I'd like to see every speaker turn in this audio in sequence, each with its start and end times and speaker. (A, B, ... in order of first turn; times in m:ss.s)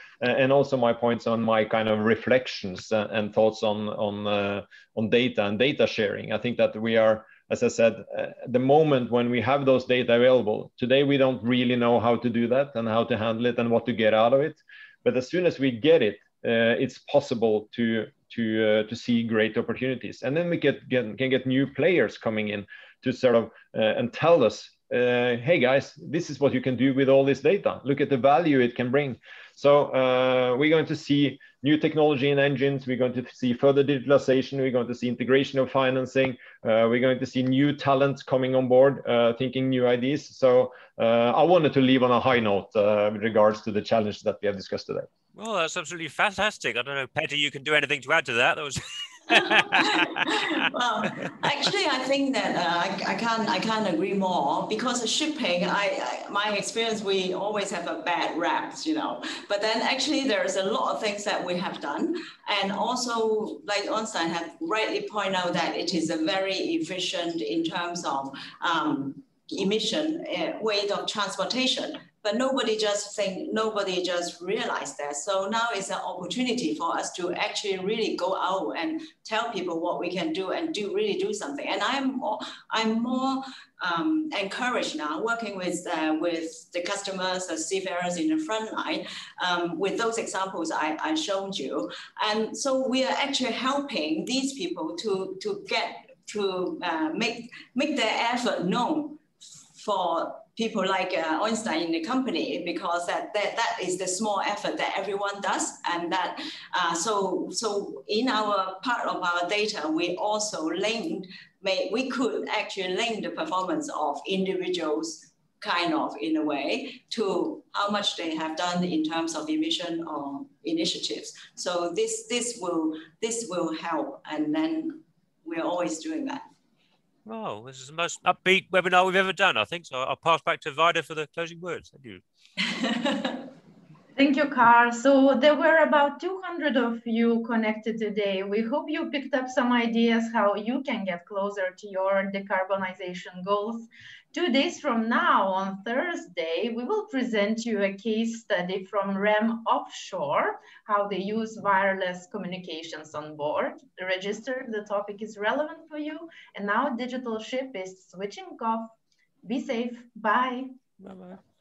0:00.2-0:45.1 A
0:45.4-0:50.7 B
0:49.3-2:06.4 C
2:07.3-2:12.2 B
2:12.6-2:13.4 C
2:14.2-2:40.7 D
2:41.0-2:41.4 B